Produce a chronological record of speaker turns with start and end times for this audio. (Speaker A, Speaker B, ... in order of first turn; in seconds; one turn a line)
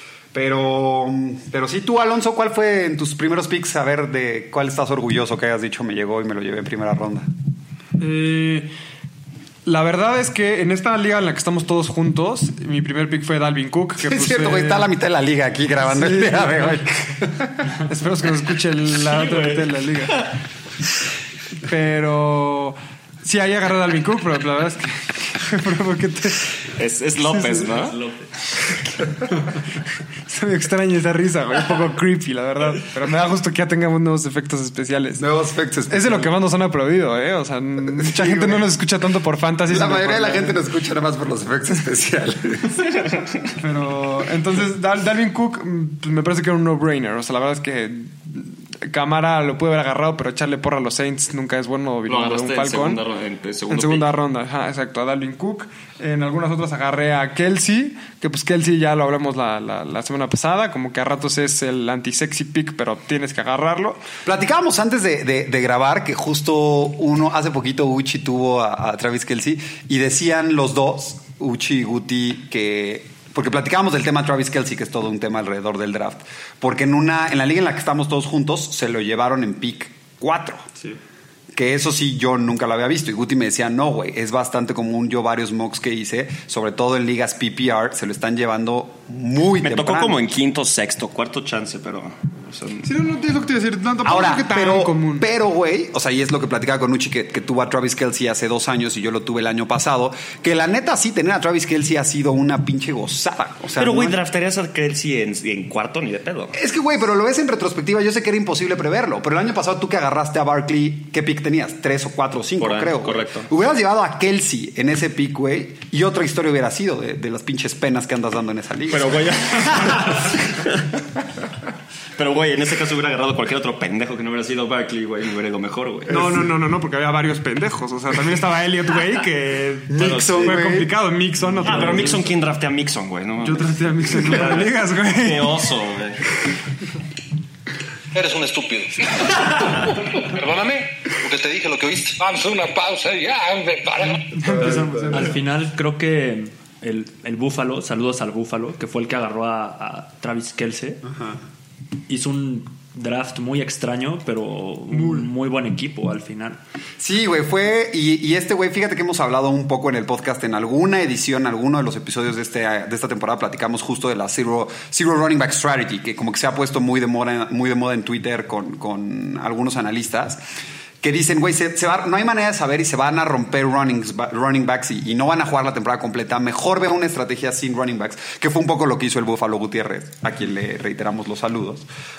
Speaker A: 0.3-7.3
Speaker B: 8.0-8.7
Speaker B: 9.7-14.9
Speaker A: 14.0-17.7
Speaker B: 15.8-16.9
Speaker B: 17.7-20.3
Speaker C: 19.1-20.3
Speaker B: 21.6-26.5
Speaker C: 26.8-28.6
Speaker B: 27.2-27.9
Speaker B: 30.3-35.2
Speaker A: 35.2-36.3
Speaker B: 35.9-40.6
Speaker A: 37.9-38.7
Speaker A: 39.7-42.9
Speaker C: 43.0-43.4
Speaker B: 43.6-53.0
Speaker C: 52.1-54.1
Speaker B: 53.7-64.0
Speaker A: 64.3-80.7
Speaker A: 81.5-90.2
Speaker C: 89.6-92.9
Speaker B: 92.8-95.3
Speaker A: 94.0-104.2
Speaker C: 103.8-106.6
Speaker A: 106.5-120.2
Speaker C: 112.6-113.5
Speaker C: 118.9-120.9
Speaker C: 122.2-126.4
Speaker B: 126.1-132.4
Speaker A: 129.9-130.9
Speaker C: 130.0-130.7
Speaker C: 131.6-136.3
Speaker B: 133.4-135.7
Speaker D: 138.1-144.6
Speaker B: 144.3-145.4
Speaker A: 144.4-144.9
Speaker E: 145.1-151.0
Speaker A: 151.0-151.4
Speaker E: 152.1-156.6
Speaker A: 157.0-170.4
Speaker A: 171.0-181.8